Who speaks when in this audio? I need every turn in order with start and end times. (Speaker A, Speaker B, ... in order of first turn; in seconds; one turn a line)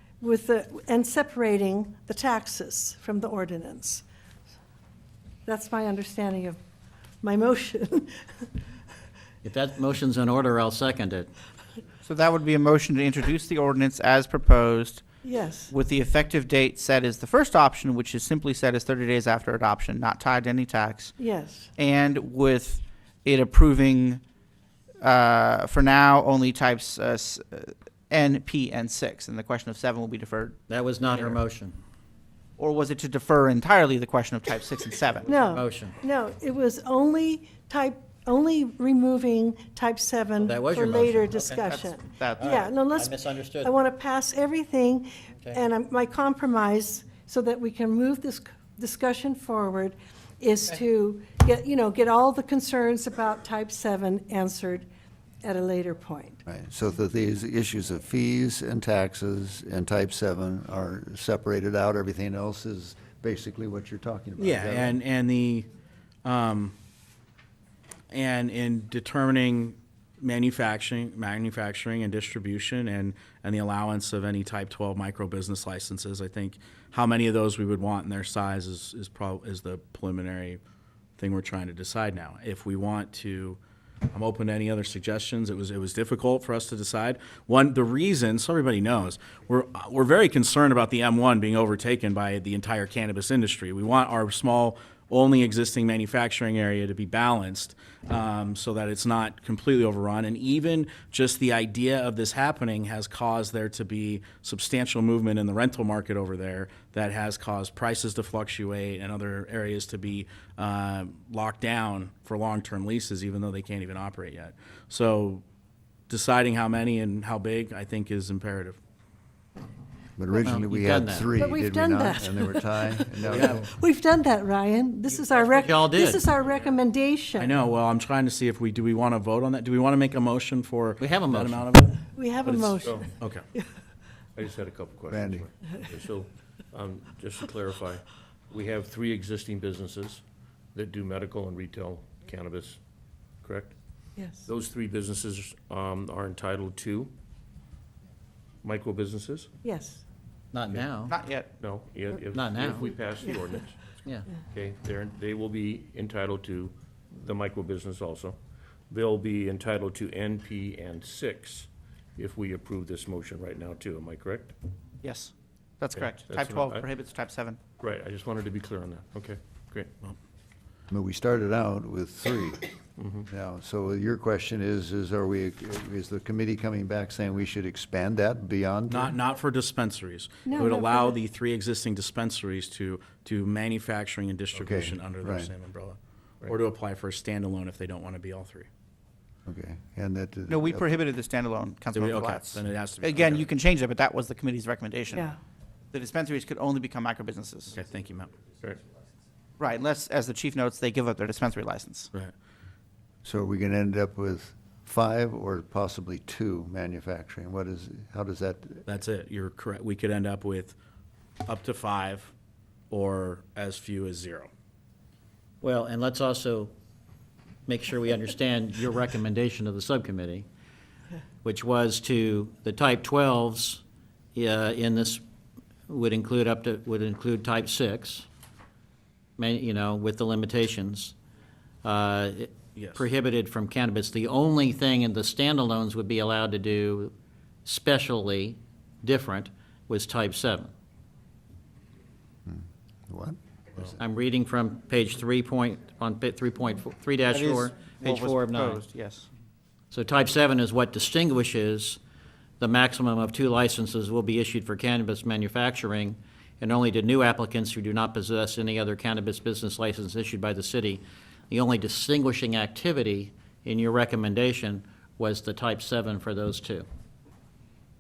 Speaker A: 0.2-4.0
Speaker A: 5.5-6.6
Speaker A: 7.2-8.5
Speaker B: 9.4-11.3
Speaker C: 12.0-15.0
Speaker A: 15.2-15.7
Speaker C: 15.7-21.1
Speaker A: 21.2-21.7
Speaker C: 21.8-24.2
Speaker C: 25.0-30.6
Speaker B: 30.7-31.8
Speaker C: 32.6-35.3
Speaker A: 35.2-54.9
Speaker B: 35.5-35.9
Speaker B: 40.4-41.4
Speaker C: 41.4-42.7
Speaker B: 42.4-43.7
Speaker A: 55.4-56.4
Speaker D: 56.5-65.0
Speaker E: 64.4-65.7
Speaker E: 66.2-66.7
Speaker E: 68.1-80.6
Speaker E: 81.2-83.6
Speaker E: 84.1-115.4
Speaker E: 116.1-118.8
Speaker D: 120.2-123.7
Speaker B: 120.4-121.3
Speaker A: 121.3-127.5
Speaker E: 123.3-123.7
Speaker B: 125.5-126.2
Speaker E: 127.4-133.4
Speaker B: 131.0-131.7
Speaker A: 132.1-133.1
Speaker F: 132.8-133.1
Speaker F: 134.3-140.2
Speaker D: 135.1-135.5
Speaker F: 140.7-142.8
Speaker F: 143.4-143.8
Speaker A: 144.2-144.5
Speaker F: 144.4-147.1
Speaker F: 148.6-149.5
Speaker A: 149.6-150.0
Speaker B: 150.5-151.1
Speaker C: 151.1-151.5
Speaker F: 151.6-158.4
Speaker B: 152.3-152.9
Speaker B: 154.0-154.3
Speaker F: 158.9-164.5
Speaker C: 165.0-167.6
Speaker F: 166.0-166.8
Speaker F: 167.8-169.9
Speaker D: 170.9-172.6
Speaker F: 173.0-173.2
Speaker D: 173.2-179.2
Speaker E: 178.9-188.7
Speaker A: 180.4-181.2
Speaker D: 184.5-185.5
Speaker D: 189.4-191.0
Speaker C: 190.5-195.3
Speaker E: 191.9-193.5
Speaker C: 195.9-197.8
Speaker E: 197.7-198.4
Speaker C: 199.6-202.1
Speaker D: 203.2-208.8
Speaker E: 208.9-210.8
Speaker E: 211.4-212.3
Speaker E: 212.9-214.5
Speaker B: 215.6-216.7
Speaker B: 217.7-220.5
Speaker B: 221.4-223.8
Speaker B: 224.3-225.2
Speaker B: 225.9-228.3
Speaker B: 229.4-231.1
Speaker B: 231.8-237.1
Speaker E: 232.8-233.0
Speaker B: 237.6-240.7
Speaker D: 242.4-243.4
Speaker B: 243.8-248.8
Speaker C: 247.3-249.3
Speaker B: 249.9-252.0
Speaker B: 252.6-266.9